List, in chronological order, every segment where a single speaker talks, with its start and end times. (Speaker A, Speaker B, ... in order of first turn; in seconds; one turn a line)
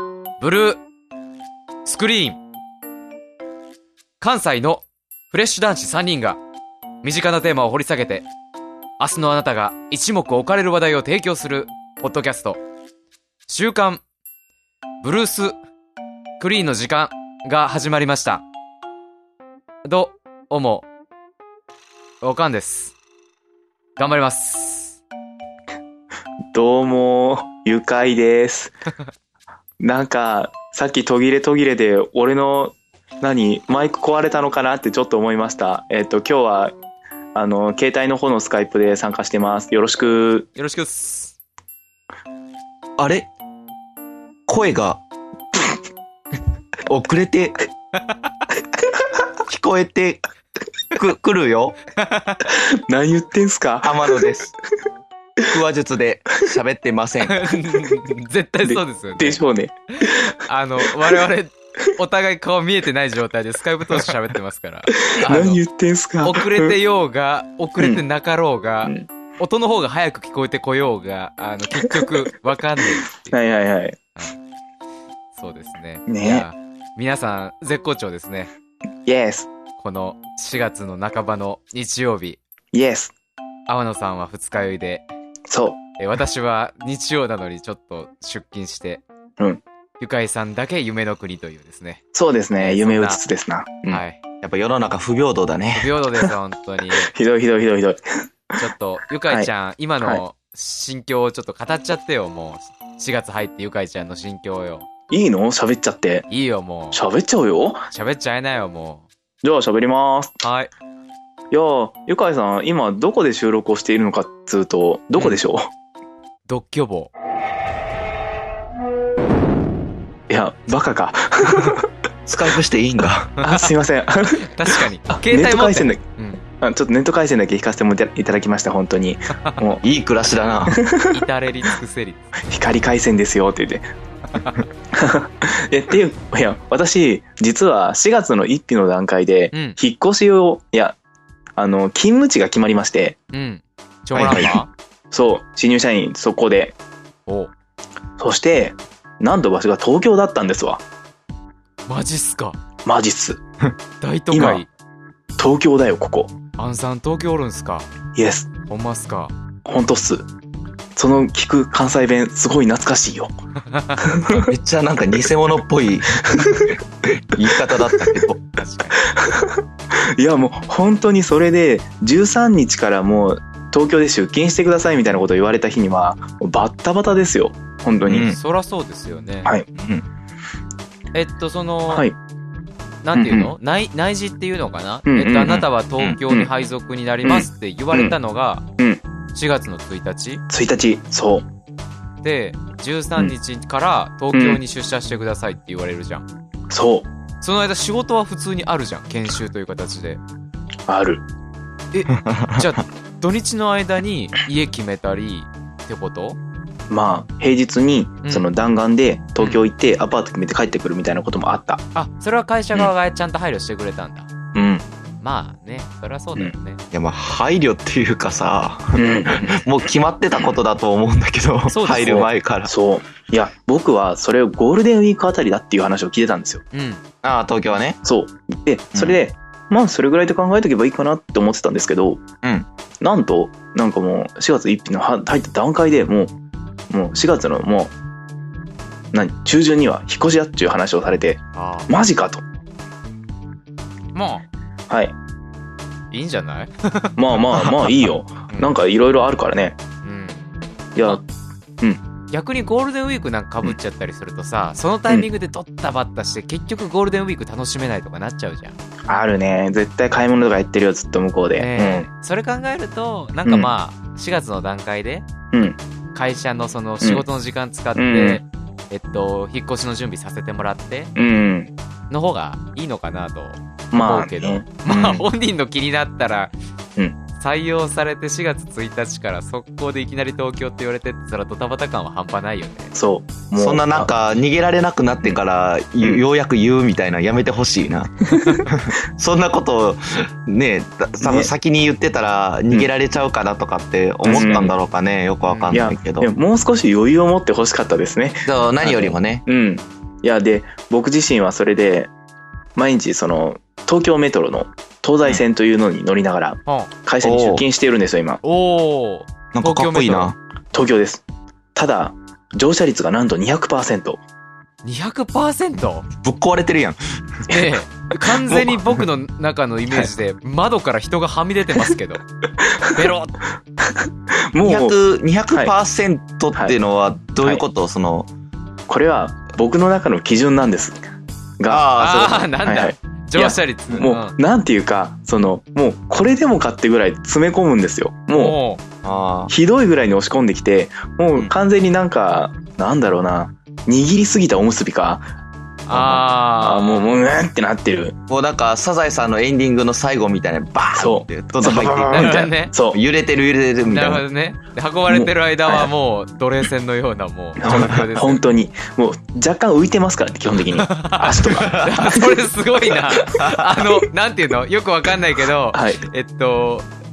Speaker A: 0.4-0.8
Speaker A: 1.9-2.4
Speaker A: 4.2-6.4
Speaker A: 7.0-8.3
Speaker A: 9.0-12.6
Speaker A: 13.5-14.0
Speaker A: 15.0-15.6
Speaker A: 16.4-18.4
Speaker A: 19.9-20.9
Speaker A: 22.2-22.9
Speaker A: 24.0-25.0
Speaker B: 26.5-28.8
Speaker B: 29.8-36.8
Speaker B: 37.4-40.5
Speaker A: 40.6-41.4
Speaker C: 43.0-43.3
Speaker C: 44.5-45.0
Speaker C: 46.9-47.6
Speaker C: 49.5-50.2
Speaker C: 51.0-51.8
Speaker A: 52.0-52.5
Speaker B: 52.5-54.3
Speaker C: 53.8-54.5
Speaker C: 55.5-57.4
Speaker A: 57.2-59.4
Speaker B: 58.6-61.2
Speaker A: 60.0-65.6
Speaker B: 65.0-66.8
Speaker A: 66.2-73.4
Speaker B: 73.3-74.0
Speaker A: 75.3-78.5
Speaker B: 76.1-76.5
Speaker B: 79.1-79.5
Speaker A: 79.8-82.4
Speaker B: 82.7-83.1
Speaker A: 83.7-85.1
Speaker B: 85.5-85.8
Speaker A: 86.0-89.0
Speaker A: 90.0-92.0
Speaker B: 92.1-94.0
Speaker A: 92.6-93.2
Speaker A: 93.9-94.2
Speaker C: 94.4-95.9
Speaker A: 95.8-97.1
Speaker B: 96.9-98.0
Speaker A: 98.6-104.9
Speaker B: 105.1-106.3
Speaker A: 106.3-107.0
Speaker B: 106.9-107.9
Speaker A: 107.9-109.1
Speaker B: 109.4-110.3
Speaker A: 110.4-110.7
Speaker B: 111.5-115.7
Speaker A: 116.5-117.1
Speaker B: 120.3-121.9
Speaker C: 122.3-123.3
Speaker A: 123.4-123.7
Speaker B: 123.4-126.0
Speaker A: 124.3-126.4
Speaker B: 126.6-129.8
Speaker C: 129.8-130.8
Speaker B: 130.7-131.2
Speaker A: 131.1-132.4
Speaker B: 132.5-133.9
Speaker A: 134.4-134.6
Speaker B: 134.9-141.0
Speaker A: 139.5-139.8
Speaker B: 141.6-143.2
Speaker A: 143.3-144.7
Speaker C: 144.2-144.5
Speaker B: 145.1-146.8
Speaker A: 147.3-147.5
Speaker B: 148.2-150.8
Speaker A: 151.9-152.6
Speaker B: 152.8-153.4
Speaker A: 154.0-154.7
Speaker B: 154.3-154.6
Speaker B: 155.4-156.3
Speaker A: 156.6-157.9
Speaker B: 158.2-158.5
Speaker A: 158.7-159.3
Speaker B: 159.7-160.3
Speaker B: 161.0-163.3
Speaker A: 163.7-164.0
Speaker B: 164.0-164.5
Speaker C: 164.3-166.8
Speaker B: 166.2-166.8
Speaker C: 167.3-168.4
Speaker A: 168.6-169.0
Speaker B: 169.0-178.3
Speaker C: 178.1-178.4
Speaker A: 178.2-179.5
Speaker C: 179.8-180.0
Speaker A: 181.1-182.1
Speaker B: 181.9-182.2
Speaker A: 183.0-188.7
Speaker B: 183.2-183.5
Speaker B: 185.1-185.7
Speaker B: 187.2-188.2
Speaker A: 189.3-190.4
Speaker B: 190.5-191.5
Speaker A: 192.2-196.3
Speaker B: 194.3-194.6
Speaker B: 196.7-197.1
Speaker A: 197.4-200.2
Speaker B: 200.9-201.2
Speaker A: 201.9-206.4
Speaker B: 206.9-211.8
Speaker A: 208.2-208.5
Speaker A: 211.9-214.3
Speaker B: 214.5-214.8
Speaker A: 215.2-216.8
Speaker C: 216.9-222.7
Speaker B: 218.9-219.6
Speaker A: 221.7-222.3
Speaker B: 222.0-226.6
Speaker A: 226.7-227.0
Speaker C: 227.2-228.0
Speaker B: 228.0-232.2
Speaker B: 233.0-236.3
Speaker B: 236.9-237.9
Speaker B: 239.1-242.4
Speaker A: 241.6-241.9
Speaker A: 244.1-244.4
Speaker B: 244.9-245.2
Speaker A: 246.1-247.9
Speaker B: 247.2-249.8
Speaker A: 250.0-250.5
Speaker B: 250.9-251.2
Speaker A: 252.3-258.8
Speaker B: 259.1-262.1
Speaker A: 261.6-265.3
Speaker B: 263.4-263.7
Speaker B: 265.5-265.8
Speaker A: 266.1-271.1
Speaker B: 267.9-268.4
Speaker B: 271.2-271.7
Speaker A: 272.1-276.5
Speaker B: 273.9-275.2
Speaker A: 277.4-282.9
Speaker B: 282.9-284.1
Speaker C: 283.6-296.3
Speaker B: 288.3-288.7
Speaker B: 291.2-291.5
Speaker B: 294.2-294.7
Speaker A: 294.3-294.7
Speaker A: 295.5-295.8
Speaker B: 295.7-302.1
Speaker C: 298.4-299.4
Speaker B: 302.8-308.4
Speaker A: 306.7-306.9
Speaker C: 307.2-307.6
Speaker A: 308.4-310.3
Speaker C: 309.5-310.4
Speaker B: 310.7-311.2
Speaker B: 311.8-314.2
Speaker A: 314.8-316.1
Speaker C: 316.2-317.5
Speaker A: 317.5-322.2
Speaker B: 322.7-323.0
Speaker A: 322.9-323.3
Speaker B: 323.8-324.9
Speaker C: 324.6-328.3
Speaker B: 328.9-331.0
Speaker B: 331.6-331.9
Speaker C: 331.7-332.6
Speaker A: 332.0-334.4
Speaker B: 332.6-338.6
Speaker A: 338.3-338.8
Speaker C: 339.0-339.5
Speaker B: 339.5-345.2
Speaker C: 345.9-346.3
Speaker A: 345.9-347.1
Speaker B: 346.6-348.1
Speaker C: 348.3-354.2
Speaker B: 350.9-353.0
Speaker A: 351.7-352.7
Speaker A: 353.8-358.4
Speaker B: 355.1-355.9
Speaker B: 357.6-362.4
Speaker A: 360.8-366.9
Speaker C: 361.5-361.9
Speaker C: 363.4-363.8
Speaker B: 365.7-366.0